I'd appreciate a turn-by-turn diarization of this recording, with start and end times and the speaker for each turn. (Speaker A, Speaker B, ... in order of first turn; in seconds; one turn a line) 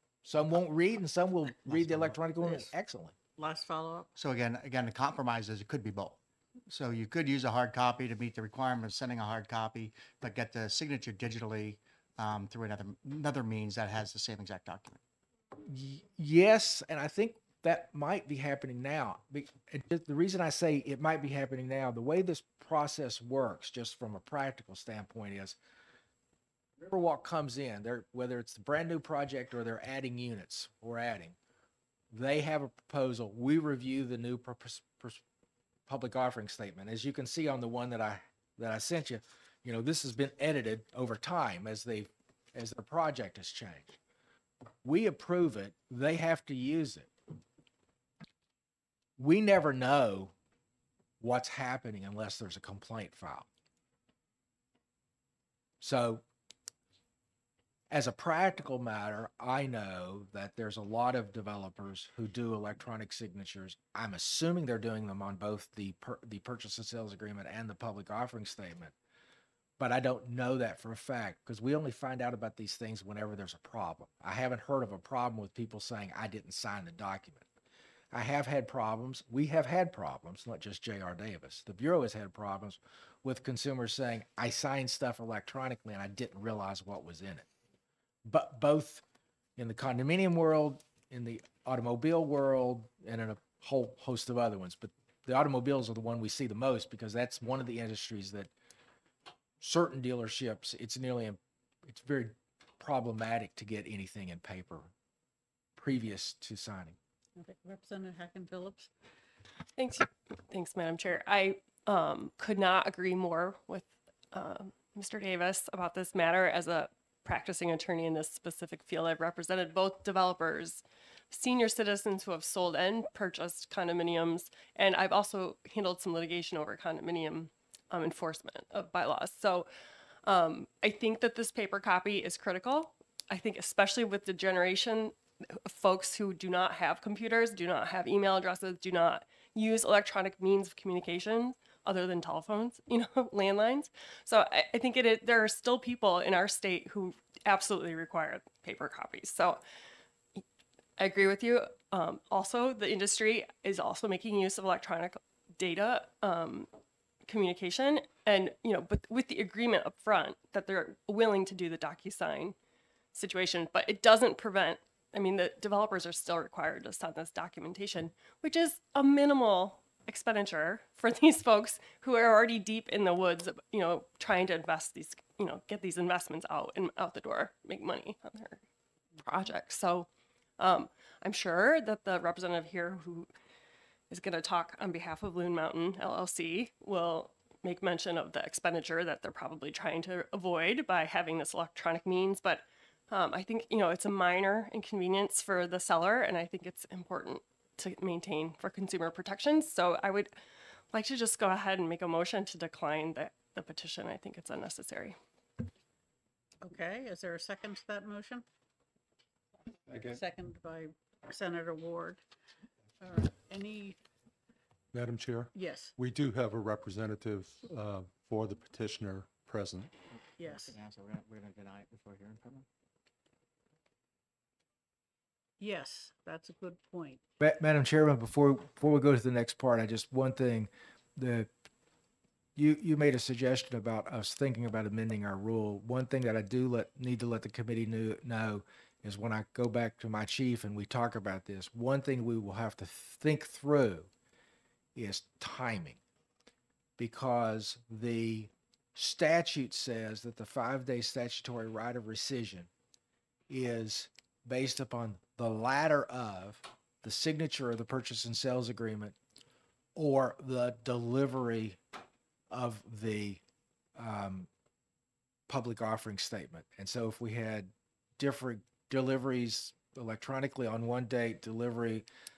Speaker A: 0.2-3.1
Speaker B: 3.4-4.1
Speaker C: 4.2-15.0
Speaker A: 15.6-25.6
Speaker A: 26.8-31.4
Speaker A: 32.1-35.2
Speaker A: 35.9-44.0
Speaker A: 44.8-47.1
Speaker A: 49.2-50.3
Speaker A: 51.2-53.5
Speaker A: 55.8-56.2
Speaker A: 57.9-68.9
Speaker A: 69.8-77.5
Speaker A: 78.1-87.5
Speaker A: 88.3-89.0
Speaker A: 89.6-98.5
Speaker A: 99.6-104.9
Speaker A: 105.8-107.0
Speaker B: 107.4-108.9
Speaker D: 109.8-129.7
Speaker D: 130.2-149.6
Speaker D: 151.0-156.7
Speaker D: 157.3-162.6
Speaker D: 163.1-178.6
Speaker D: 179.2-183.3
Speaker D: 184.1-200.4
Speaker D: 200.9-205.2
Speaker B: 206.6-208.4
Speaker B: 209.9-212.2
Speaker B: 213.0-214.0
Speaker E: 214.9-219.9
Speaker B: 215.5-215.9
Speaker B: 220.4-220.8
Speaker C: 220.4-222.7
Speaker B: 225.6-227.2
Speaker A: 227.4-231.5
Speaker A: 232.6-244.1
Speaker A: 244.9-246.0
Speaker A: 247.0-252.7
Speaker A: 253.5-259.1
Speaker A: 259.9-261.8
Speaker A: 262.5-263.4
Speaker A: 263.9-264.5
Speaker A: 265.5-272.1